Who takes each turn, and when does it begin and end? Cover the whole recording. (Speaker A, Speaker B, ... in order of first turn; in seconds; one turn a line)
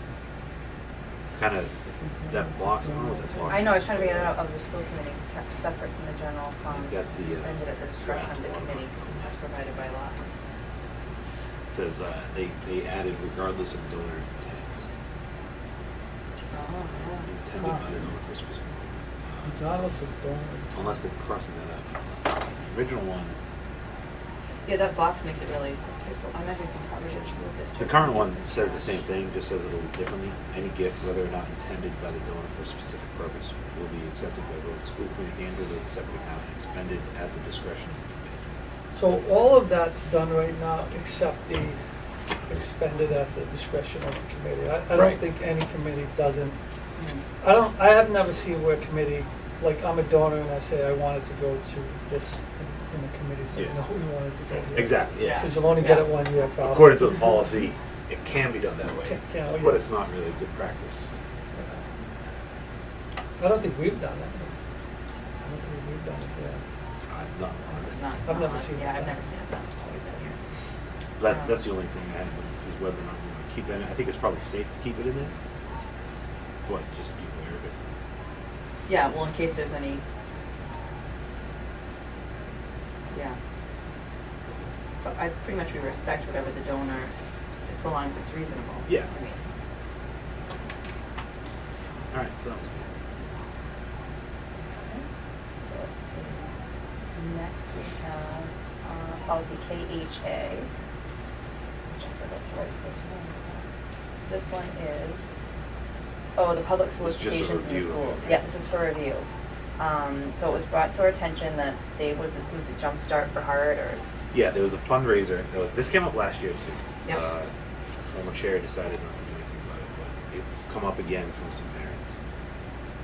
Speaker A: 1.3-1.7
Speaker B: 2.0-3.5
Speaker A: 2.2-4.4
Speaker C: 3.5-10.3
Speaker A: 6.6-9.4
Speaker A: 11.7-14.9
Speaker C: 16.5-17.3
Speaker A: 17.2-19.5
Speaker B: 17.6-17.9
Speaker B: 19.4-20.7
Speaker A: 20.7-23.3
Speaker C: 24.6-29.0
Speaker A: 27.8-38.3
Speaker B: 38.9-41.8
Speaker B: 42.5-46.6
Speaker A: 44.9-45.2
Speaker B: 47.4-57.4
Speaker A: 54.7-55.6
Speaker C: 55.2-56.1
Speaker A: 56.5-61.1
Speaker B: 59.0-59.9
Speaker B: 63.4-64.6
Speaker B: 65.4-66.6
Speaker A: 67.1-68.0
Speaker C: 67.7-70.4
Speaker B: 68.2-69.1
Speaker A: 71.2-75.3
Speaker A: 76.6-77.7
Speaker C: 78.9-80.0
Speaker C: 83.1-83.4
Speaker C: 85.0-89.4
Speaker A: 92.1-92.9
Speaker C: 94.6-95.0
Speaker C: 95.6-96.5
Speaker C: 97.1-100.7
Speaker C: 101.9-103.7
Speaker C: 104.3-105.4
Speaker C: 106.3-114.0
Speaker A: 107.0-108.5
Speaker A: 114.3-117.5
Speaker A: 118.0-122.2